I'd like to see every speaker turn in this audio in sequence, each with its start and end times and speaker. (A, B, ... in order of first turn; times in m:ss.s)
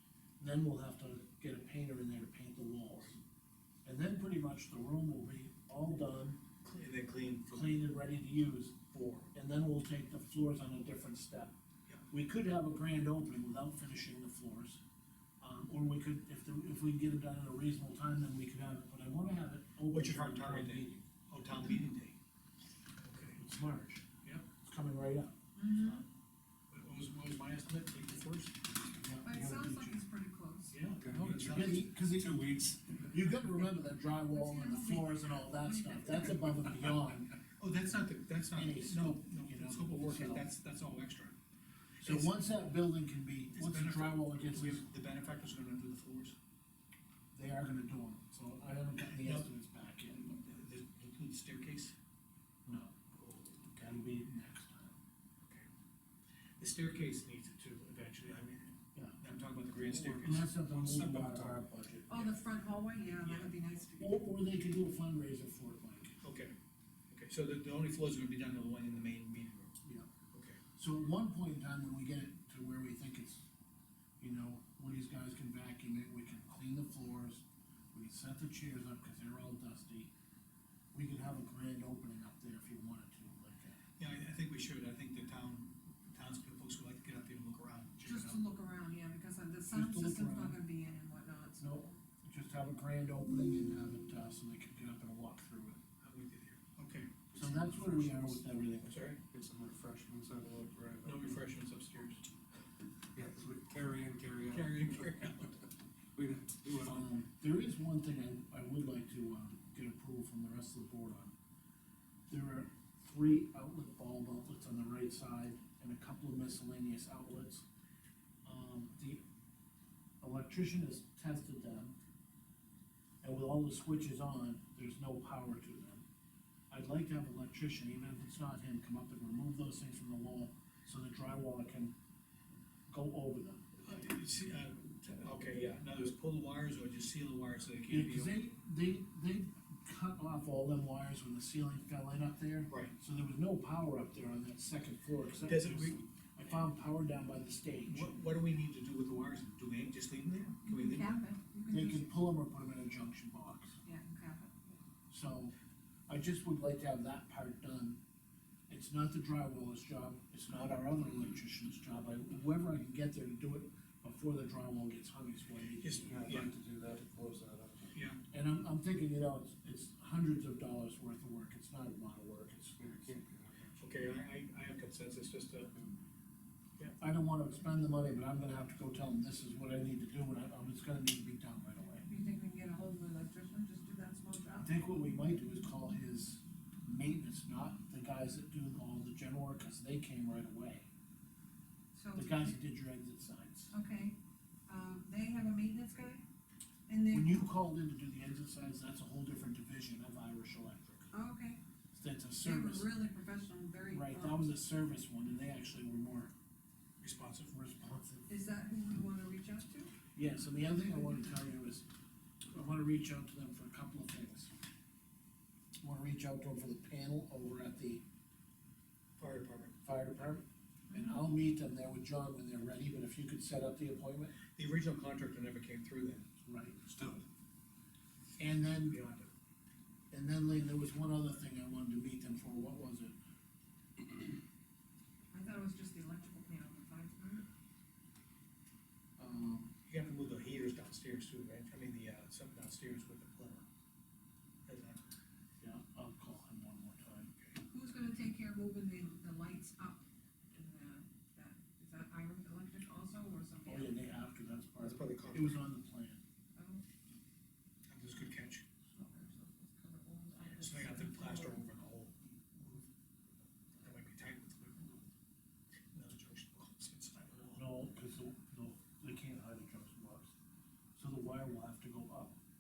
0:00.4-0:03.2 A
0:03.8-0:06.4 A
0:06.6-0:07.7 B
0:07.5-0:11.5 A
0:12.1-0:14.8 A
0:15.4-0:21.1 A
0:19.9-0:22.2 B
0:23.0-0:23.4 B
0:23.4-0:25.3 A
0:25.6-0:26.0 C
0:26.7-0:28.6 B
0:29.0-0:30.0 A
0:29.2-0:30.8 C
0:30.7-0:31.8 B
0:31.0-0:33.1 D
0:31.3-0:32.5 A
0:33.1-0:37.4 A
0:34.3-0:36.6 C
0:37.6-0:41.4 B
0:38.6-0:40.5 A
0:42.0-0:42.6 B
0:42.0-0:44.9 A
0:43.5-0:46.4 B
0:47.3-0:50.3 A
0:49.2-0:49.5 B
0:50.2-0:52.0 B
0:52.7-0:53.0 A
0:53.1-0:53.7 B
0:53.7-0:55.0 A
0:55.4-0:55.7 B
0:56.6-1:00.5 B
0:58.9-0:59.2 A
0:59.8-1:02.2 A
1:00.4-1:01.6 D
1:02.1-1:04.2 C
1:03.2-1:03.5 B
1:04.0-1:06.2 A
1:06.2-1:06.5 B
1:07.1-1:09.8 B
1:09.8-1:10.1 A
1:10.3-1:10.6 B
1:10.8-1:13.5 A
1:14.2-1:20.1 A
1:20.9-1:23.8 A
1:24.0-1:28.4 B
1:28.0-1:32.0 C
1:29.7-1:30.6 A
1:31.6-1:35.8 A
1:36.0-1:37.3 B
1:37.3-1:38.4 D
1:37.3-1:39.1 A
1:38.8-1:39.2 B
1:39.3-1:41.4 D
1:41.0-1:42.2 B
1:43.1-1:45.2 D
1:44.5-1:45.6 B
1:46.2-1:47.2 D
1:46.8-1:51.3 A
1:52.3-1:57.6 A
1:58.4-1:59.2 A
2:00.2-2:02.0 A
2:03.2-2:06.0 A
2:06.7-2:11.9 A
2:12.9-2:13.8 A
2:13.8-2:18.4 B
2:17.9-2:28.2 A
2:22.7-2:23.0 B
2:25.4-2:26.0 B
2:27.8-2:31.3 B
2:30.6-2:32.1 C
2:31.7-2:33.8 A
2:33.8-2:34.8 C
2:35.1-2:35.5 A
2:36.1-2:38.0 A
2:38.7-2:46.3 A
2:45.8-2:46.5 B
2:46.0-2:47.9 D
2:47.9-2:48.2 B
2:48.3-2:53.2 A
2:52.8-2:53.8 D
2:53.8-2:55.7 B
2:57.0-3:02.1 A
3:02.0-3:04.7 C
3:04.6-3:10.9 A
3:11.9-3:12.6 C
3:12.1-3:13.7 A
3:13.7-3:14.2 C
3:14.7-3:16.2 C
3:16.9-3:17.5 C
3:17.1-3:21.1 A
3:21.1-3:21.6 C
3:21.9-3:22.9 A
3:22.4-3:24.4 C
3:23.9-3:26.3 A
3:27.0-3:27.5 B
3:27.5-3:28.3 A
3:28.3-3:29.9 C
3:30.2-3:31.9 A
3:32.5-3:34.5 A
3:35.8-3:38.0 A
3:39.2-3:39.8 B
3:39.8-3:44.4 A
3:40.9-3:41.2 C
3:44.6-3:46.2 B
3:46.4-3:46.8 A
3:46.8-3:47.2 D
3:48.4-3:49.0 A
3:48.9-3:49.3 B
3:50.1-3:53.2 A
3:55.3-3:57.5 C
3:59.2-3:59.7 A
3:59.9-4:03.6 B
4:04.7-4:05.0 B
4:05.6-4:07.3 A
4:07.7-4:14.0 C
4:13.6-4:16.2 A
4:14.8-4:15.6 B
4:16.6-4:16.8 C
4:17.9-4:18.6 B
4:18.9-4:21.6 C
4:20.4-4:22.9 B
4:23.8-4:25.1 B
4:25.9-4:27.6 B
4:27.6-4:30.3 A
4:31.0-4:32.4 A